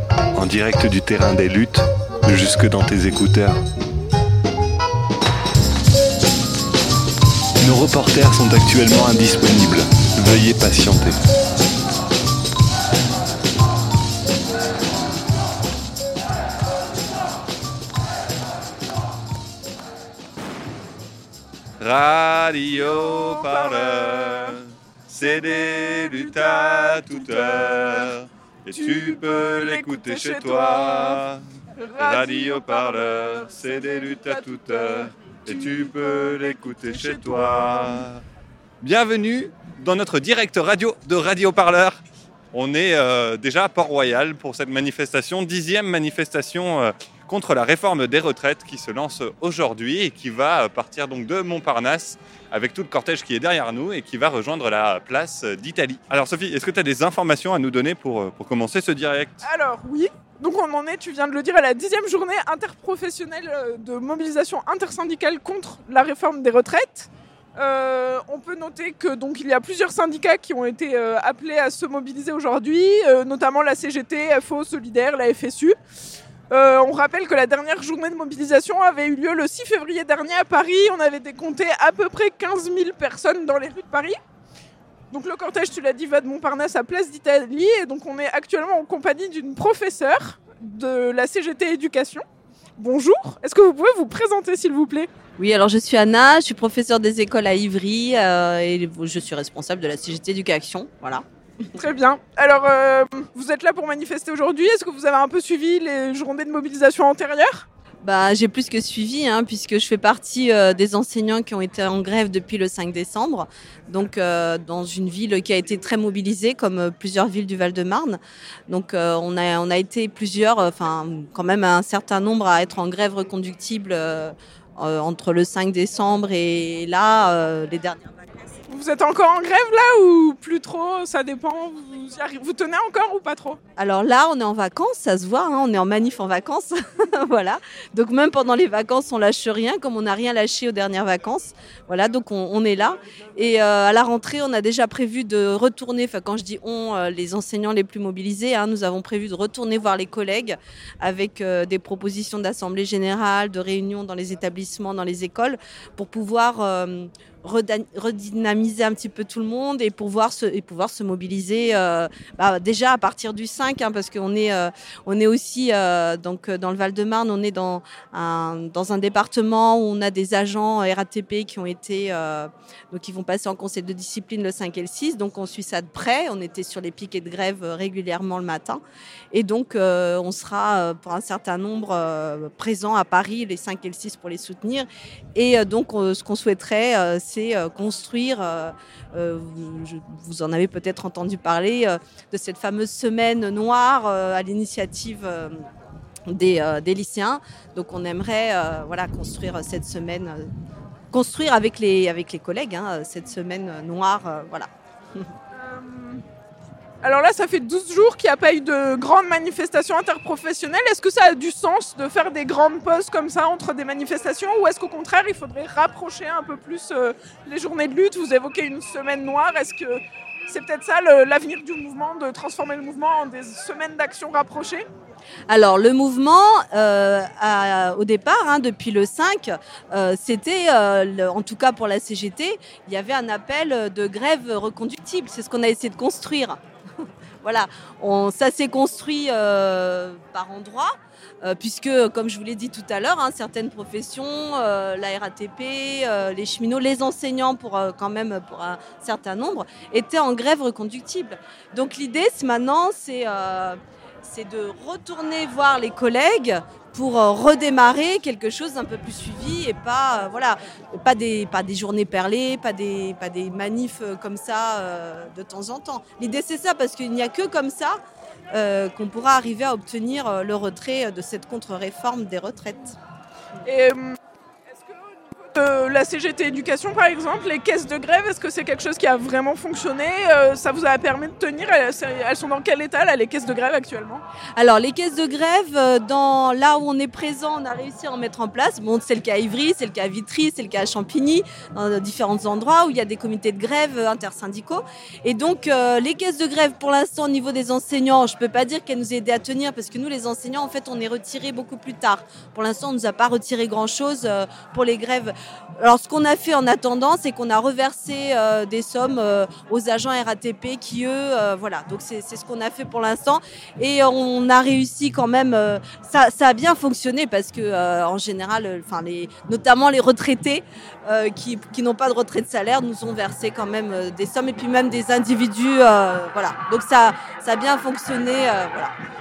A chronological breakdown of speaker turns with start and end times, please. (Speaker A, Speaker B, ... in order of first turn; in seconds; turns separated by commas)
Speaker A: 0.3-3.6, Speaker A: 7.6-11.2, Speaker A: 21.8-31.4, Speaker B: 23.2-24.6, Speaker B: 25.2-28.1, Speaker B: 28.7-31.2, Speaker B: 31.7-38.0, Speaker A: 32.0-38.2, Speaker A: 38.8-42.0, Speaker A: 42.5-59.4, Speaker B: 59.4-75.8, Speaker B: 76.5-84.2, Speaker B: 85.1-92.2, Speaker B: 92.8-95.1, Speaker C: 95.4-101.2, Speaker B: 101.8-107.7, Speaker C: 108.0-128.2, Speaker B: 128.7-133.6, Speaker C: 133.8-178.8, Speaker C: 179.3-195.7, Speaker C: 196.3-200.5, Speaker C: 201.1-205.3, Speaker B: 205.5-206.2, Speaker B: 207.0-224.8, Speaker C: 225.5-236.6, Speaker C: 237.4-268.0, Speaker C: 268.5-273.0, Speaker B: 273.6-284.2, Speaker C: 284.6-328.9